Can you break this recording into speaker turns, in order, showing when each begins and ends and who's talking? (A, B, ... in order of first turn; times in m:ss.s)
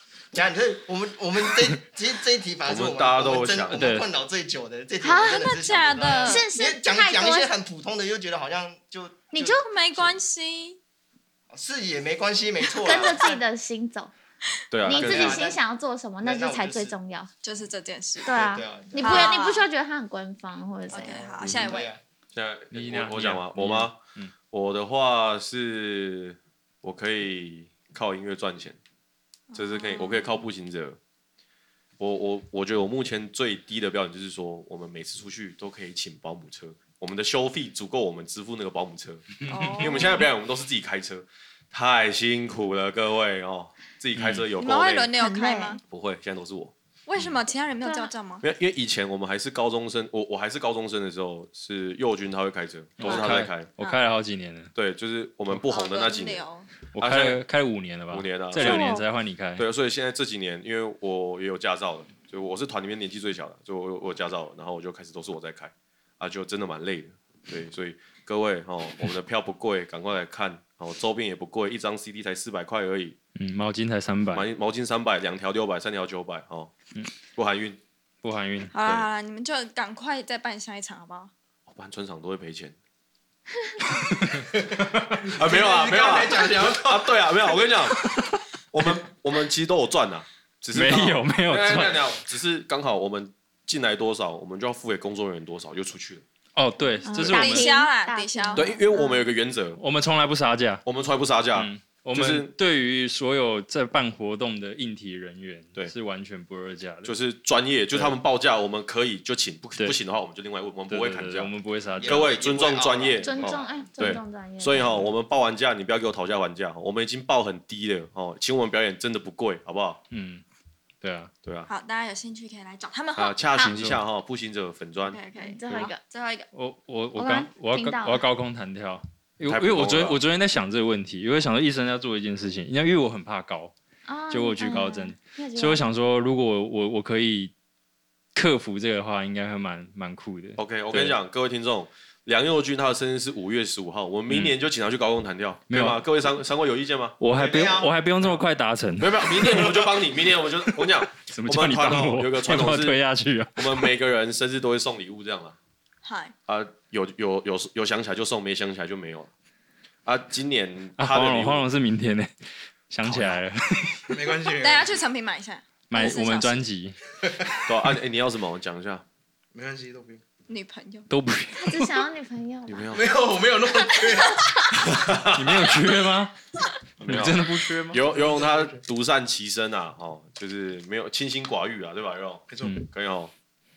0:00.3-0:10.2 A
0:02.6-0:03.9 B
0:03.7-0:04.1 C
0:05.0-0:05.4 D
0:05.2-0:06.4 E
0:06.2-0:07.5 D
0:09.4-0:10.8 E
0:11.5-0:13.4 A
0:12.8-0:14.1 D
0:14.7-0:15.4 B
0:14.8-0:17.3 D
0:14.9-0:15.6 A
0:16.2-0:17.0 A
0:17.4-0:18.3 E
0:18.2-0:21.3 D
0:18.3-0:19.4 A
0:19.0-0:19.6 E
0:20.9-0:21.9 E
0:20.9-0:22.0 A
0:21.4-0:21.7 B
0:22.3-0:24.0 B
0:22.7-0:24.3 C
0:24.5-0:28.8 B
0:29.5-0:30.4 E
0:29.5-0:31.0 B
0:32.0-0:45.1 B
0:39.5-0:40.0 C
0:39.5-0:40.2 E
0:44.2-0:44.4 C
0:44.6-0:45.8 E
0:45.2-0:45.8 D
0:45.9-0:46.7 B
0:47.1-0:48.4 E
0:47.8-0:48.1 D
0:48.4-0:53.7 B
0:53.0-0:54.7 C
0:54.7-0:56.4 B
0:55.7-0:56.7 E
0:56.9-0:59.6 C
0:57.0-0:57.4 B
0:58.1-0:58.8 B
0:58.6-0:59.0 E
0:59.6-1:13.2 B
1:13.4-1:14.5 C
1:14.3-1:16.7 B
1:17.3-1:17.8 B
1:18.2-1:18.7 C
1:18.7-1:21.3 E
1:21.7-1:22.8 B
1:25.3-1:28.1 B
1:25.5-1:26.7 F
1:25.9-1:26.8 A
1:28.7-1:36.2 B
1:30.7-1:32.1 C
1:36.6-1:37.7 C
1:37.0-1:39.3 D
1:37.2-1:38.7 E
1:38.5-1:39.8 B
1:39.7-1:40.8 C
1:40.8-1:42.5 B
1:41.5-1:47.1 C
1:47.0-1:51.5 B
1:47.9-1:48.2 C
1:50.9-1:52.4 C
1:52.0-1:53.7 A
1:52.0-2:00.0 B
1:53.2-1:55.1 D
2:00.1-2:00.4 C
2:01.0-2:01.3 C
2:01.4-2:01.7 B
2:01.7-2:03.4 E
2:03.1-2:05.2 B
2:03.7-2:04.0 C
2:05.1-2:06.5 E
2:05.4-2:06.0 D
2:06.5-2:13.7 C
2:07.2-2:08.2 D
2:09.5-2:10.2 B
2:14.0-2:15.8 D
2:14.3-2:17.5 C
2:18.3-2:21.2 C
2:20.6-2:28.4 B
2:24.3-2:24.5 C
2:25.7-2:26.0 C
2:27.2-2:29.7 C
2:29.0-2:33.0 B
2:31.1-2:33.9 C
2:33.6-2:35.6 B
2:36.0-2:36.3 E
2:36.5-2:39.3 B
2:40.0-2:41.6 B
2:41.0-2:42.3 C
2:42.9-2:44.2 C
2:44.1-2:45.0 F
2:44.6-2:46.6 E
2:45.9-2:47.0 C
2:47.6-2:49.0 B
2:49.5-2:50.2 F
2:50.5-2:51.1 E
2:51.1-2:52.0 C
2:51.6-2:53.1 D
2:52.7-2:53.0 B
2:52.9-2:54.4 F
2:55.0-2:55.7 B
2:55.4-2:56.3 C
2:57.0-3:03.3 B
2:57.0-2:58.0 C
2:58.0-2:58.8 F
3:02.5-3:02.9 F
3:02.6-3:02.9 C